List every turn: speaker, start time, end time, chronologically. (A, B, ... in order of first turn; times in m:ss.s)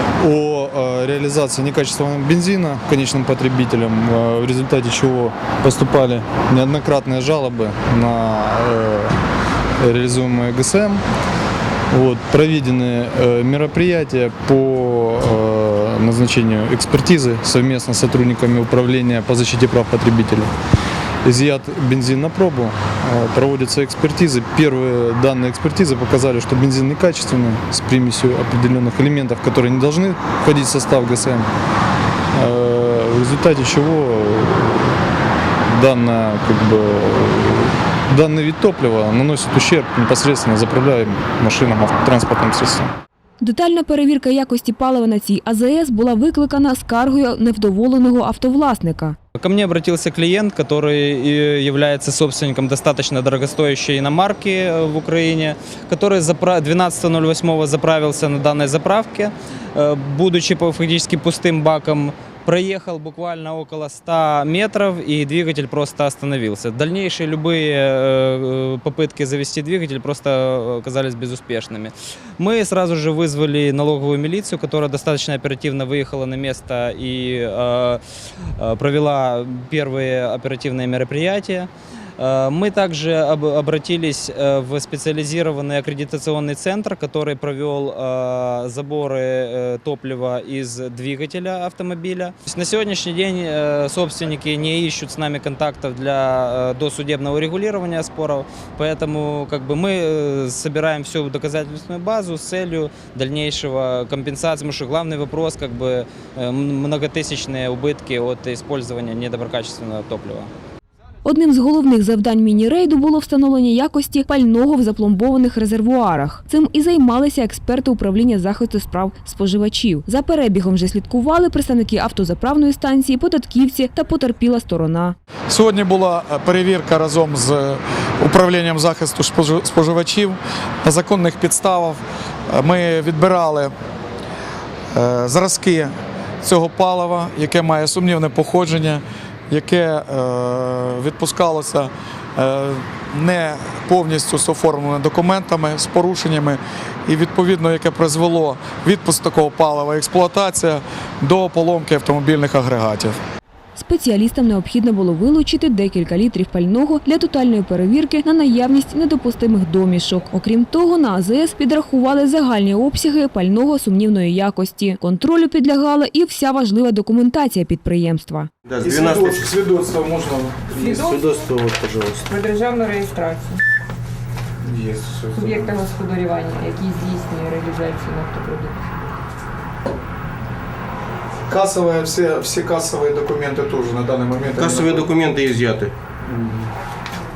0:00.2-0:09.2 A
0:09.8-0:11.0 A
0:11.9-0:20.5 A
0:21.2-0:31.5 A
0:32.3-0:35.0 A
0:35.7-0:42.9 A
0:43.4-0:49.2 B
0:49.4-1:50.5 C
1:51.2-2:05.2 B
2:05.5-2:13.7 D
2:14.9-2:33.2 D
2:33.8-2:48.5 B
2:48.7-2:49.4 E
2:48.8-2:50.8 D
2:50.8-2:51.4 F
2:50.8-2:52.3 E
2:52.3-2:53.6 F
2:54.6-2:55.7 D
2:55.3-2:59.1 F
3:01.5-3:05.1 D
3:04.5-3:05.9 E